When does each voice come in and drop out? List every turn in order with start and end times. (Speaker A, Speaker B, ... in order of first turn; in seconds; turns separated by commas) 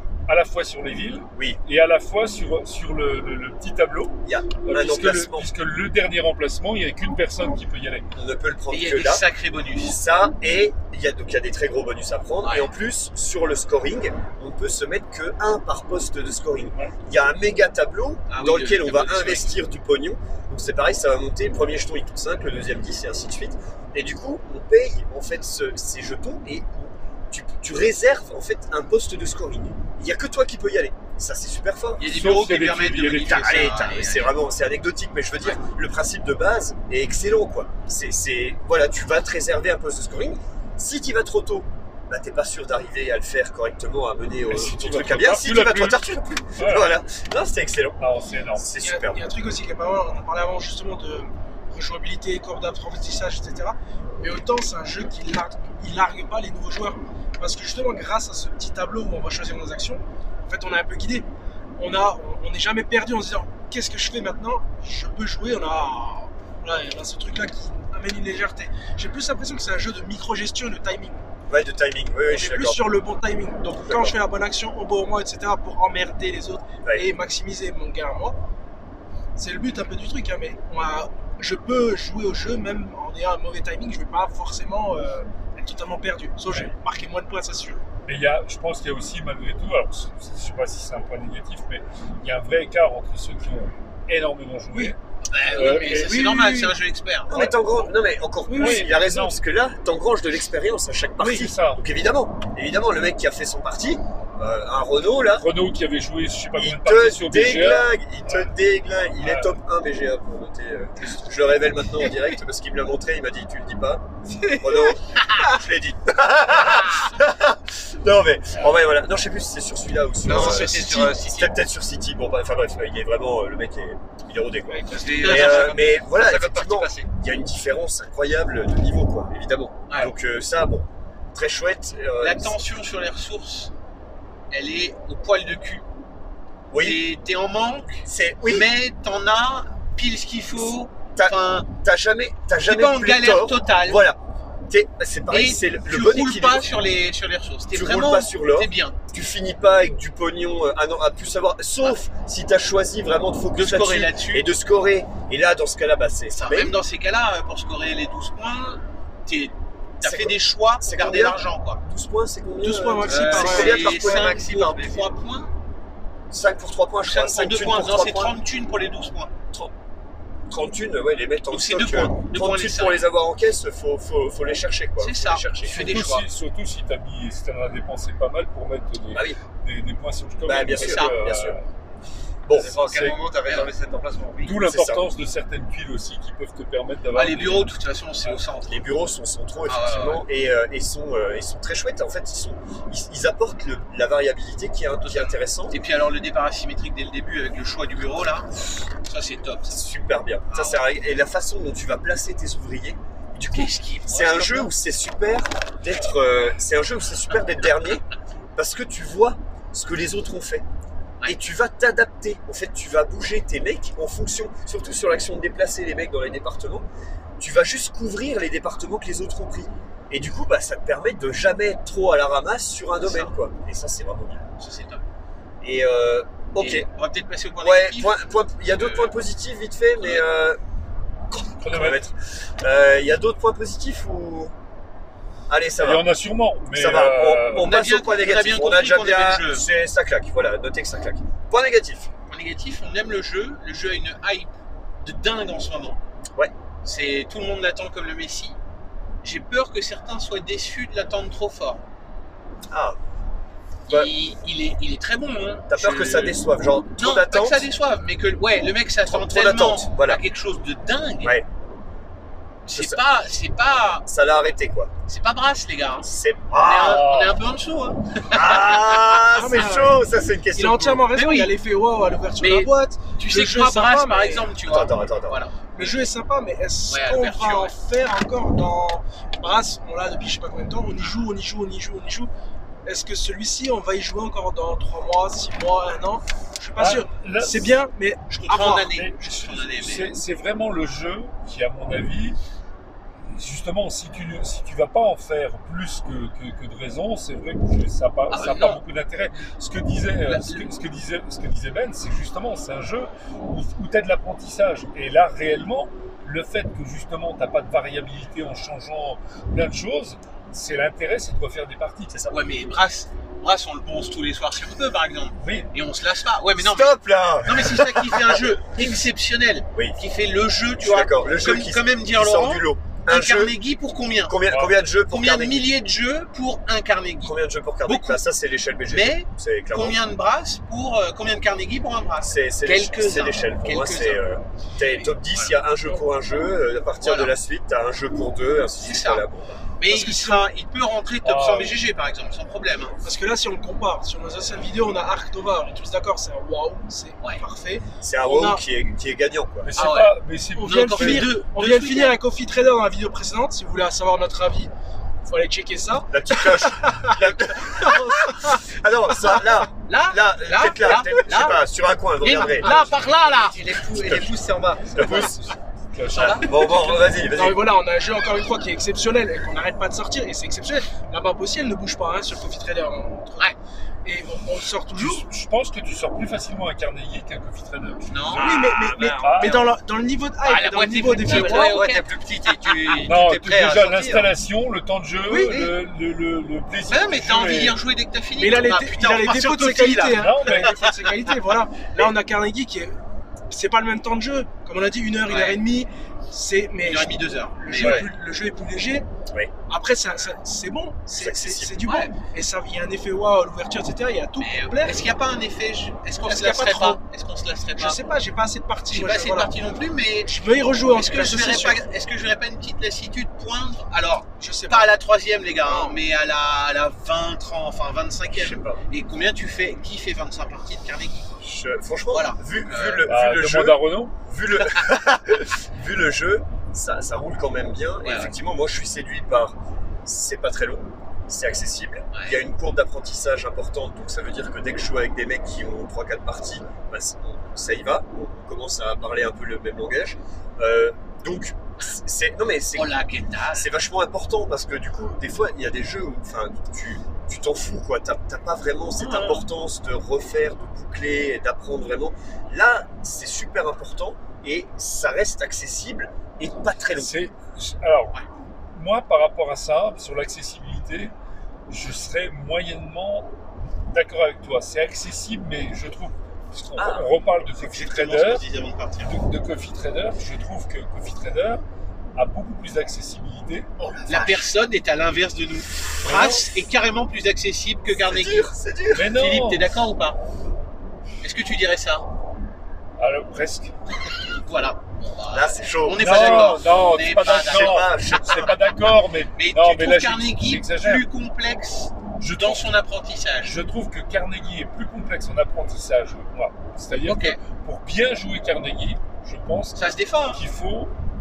Speaker A: 0.3-8.1, Speaker B: 1.3-1.6, Speaker B: 4.2-5.5, Speaker B: 8.1-9.2, Speaker C: 8.7-10.0, Speaker B: 9.8-32.2, Speaker C: 12.4-12.7, Speaker C: 18.3-19.6, Speaker C: 32.0-34.3, Speaker A: 32.0-33.9, Speaker B: 33.3-48.0, Speaker A: 44.5-46.0, Speaker A: 46.5-46.9, Speaker A: 48.0-48.7, Speaker B: 48.5-49.2, Speaker D: 48.8-61.3, Speaker D: 61.8-71.1, Speaker B: 71.5-72.9, Speaker D: 72.3-78.4, Speaker B: 73.8-74.2, Speaker D: 79.3-87.8, Speaker A: 88.0-95.0, Speaker C: 95.3-97.5, Speaker A: 95.5-96.4, Speaker D: 95.5-96.8, Speaker B: 97.3-105.5, Speaker D: 98.5-98.9, Speaker A: 98.5-99.4, Speaker A: 101.2-101.8, Speaker A: 105.3-108.5, Speaker B: 106.5-132.6, Speaker A: 109.2-109.6, Speaker C: 114.5-115.5, Speaker E: 120.2-121.5, Speaker C: 120.3-121.5, Speaker D: 124.7-125.2, Speaker E: 124.9-127.1, Speaker C: 125.2-125.8, Speaker C: 132.2-133.7, Speaker C: 134.5-135.8, Speaker B: 136.7-137.0, Speaker C: 136.8-141.7, Speaker B: 138.0-138.7, Speaker B: 141.1-146.7, Speaker C: 142.6-144.0, Speaker C: 145.3-149.0, Speaker B: 147.7-156.8, Speaker C: 153.5-154.5, Speaker C: 156.3-161.8, Speaker B: 160.0-164.5, Speaker D: 162.6-164.0, Speaker C: 163.1-165.5, Speaker E: 163.4-165.1, Speaker B: 166.3-168.3, Speaker C: 167.1-169.3, Speaker B: 170.5-175.9, Speaker C: 171.5-173.0, Speaker C: 175.0-176.3, Speaker A: 175.7-181.6, Speaker B: 179.1-179.4, Speaker B: 180.4-181.6, Speaker C: 180.7-181.2, Speaker B: 182.4-182.8, Speaker E: 182.5-184.7, Speaker A: 182.8-183.2, Speaker C: 183.4-183.7, Speaker A: 184.4-187.7, Speaker B: 184.6-185.0, Speaker C: 187.1-188.8, Speaker B: 188.7-195.8, Speaker C: 189.7-190.2, Speaker C: 195.0-199.8, Speaker B: 199.7-208.0, Speaker C: 200.5-200.8, Speaker C: 203.5-204.7, Speaker B: 208.6-210.7, Speaker B: 211.2-216.9, Speaker B: 217.4-224.4, Speaker C: 223.0-223.3, Speaker C: 224.6-225.0, Speaker B: 225.6-226.9, Speaker C: 226.6-229.1, Speaker B: 227.6-230.6, Speaker C: 230.0-230.2, Speaker B: 231.3-234.5, Speaker A: 231.6-232.0, Speaker B: 235.5-236.1, Speaker A: 235.8-237.7, Speaker B: 236.7-242.1, Speaker C: 237.6-239.7, Speaker C: 242.3-244.5, Speaker C: 245.0-246.0, Speaker C: 246.8-248.6, Speaker C: 249.2-251.8, Speaker B: 252.7-253.0, Speaker C: 253.9-256.4, Speaker B: 255.7-257.7, Speaker C: 257.0-261.4, Speaker B: 259.0-260.2, Speaker B: 261.2-261.4, Speaker C: 262.6-264.1, Speaker B: 262.7-263.0, Speaker B: 264.1-264.9, Speaker C: 265.1-269.2, Speaker B: 266.0-267.1, Speaker A: 266.8-267.4, Speaker B: 268.3-271.1, Speaker D: 269.3-270.0, Speaker D: 270.5-274.5, Speaker C: 271.1-271.5, Speaker C: 272.4-276.0, Speaker B: 274.6-275.4, Speaker D: 275.7-282.3, Speaker C: 276.9-277.7, Speaker D: 282.9-289.1, Speaker A: 286.8-287.8, Speaker C: 288.3-290.1, Speaker A: 288.9-292.4, Speaker A: 293.3-312.2, Speaker C: 298.3-298.8, Speaker C: 300.2-300.7, Speaker B: 312.1-312.4, Speaker C: 312.3-324.4, Speaker A: 315.4-315.7, Speaker B: 316.6-318.8, Speaker B: 320.8-323.6, Speaker B: 324.2-325.7, Speaker A: 324.5-324.7, Speaker C: 325.1-328.2, Speaker B: 327.2-330.0, Speaker C: 328.9-334.2, Speaker B: 332.2-339.6, Speaker C: 335.0-335.6, Speaker C: 337.0-337.3, Speaker C: 338.8-339.2, Speaker C: 339.8-342.9, Speaker D: 339.8-340.5, Speaker A: 341.2-341.8, Speaker D: 343.0-348.6, Speaker B: 348.0-349.8, Speaker A: 349.6-351.3, Speaker C: 349.8-352.2, Speaker D: 350.5-354.7, Speaker D: 355.3-358.6, Speaker B: 356.1-363.0, Speaker C: 359.9-361.6, Speaker C: 362.2-365.4, Speaker D: 362.6-362.9, Speaker B: 363.9-364.4, Speaker B: 364.9-365.4, Speaker A: 365.0-365.3, Speaker A: 365.9-366.8, Speaker C: 366.1-366.9, Speaker B: 366.1-367.7, Speaker D: 366.8-373.5, Speaker D: 374.0-375.2, Speaker A: 374.9-379.7, Speaker C: 378.1-379.6, Speaker D: 378.3-381.8, Speaker C: 380.4-383.1, Speaker E: 381.2-384.3, Speaker A: 383.1-387.8, Speaker D: 385.2-385.6, Speaker C: 386.9-391.1, Speaker D: 388.4-393.0, Speaker A: 390.1-390.7, Speaker D: 393.5-399.1, Speaker C: 395.3-395.6, Speaker C: 396.8-398.1, Speaker A: 397.8-398.1, Speaker D: 399.7-405.1, Speaker B: 401.1-401.8, Speaker C: 401.8-402.1, Speaker C: 404.4-408.0, Speaker D: 406.2-407.0, Speaker D: 407.8-409.5, Speaker C: 408.9-421.4, Speaker D: 410.3-411.8, Speaker D: 414.4-414.9, Speaker D: 415.6-416.0, Speaker B: 418.3-418.8, Speaker B: 421.4-443.0, Speaker C: 422.1-423.1, Speaker A: 423.0-424.1, Speaker C: 428.0-428.3, Speaker C: 432.1-432.4, Speaker C: 442.7-443.7, Speaker B: 443.5-457.1, Speaker C: 449.0-449.4, Speaker A: 456.9-458.2, Speaker A: 458.7-461.1, Speaker A: 461.7-463.3, Speaker A: 463.9-468.4, Speaker B: 466.8-467.1, Speaker C: 467.6-469.1, Speaker A: 469.0-471.6, Speaker A: 472.1-473.7, Speaker B: 473.8-474.4, Speaker C: 474.1-478.5, Speaker A: 476.0-476.5, Speaker B: 477.9-479.1, Speaker A: 478.9-479.7, Speaker C: 479.1-480.2, Speaker C: 481.2-482.1, Speaker A: 483.0-483.7, Speaker C: 484.4-488.5, Speaker B: 485.3-486.6, Speaker A: 486.0-491.1, Speaker B: 487.2-488.5, Speaker C: 489.4-493.6, Speaker A: 492.2-492.7, Speaker A: 493.4-500.9, Speaker C: 497.0-497.4, Speaker C: 499.8-500.4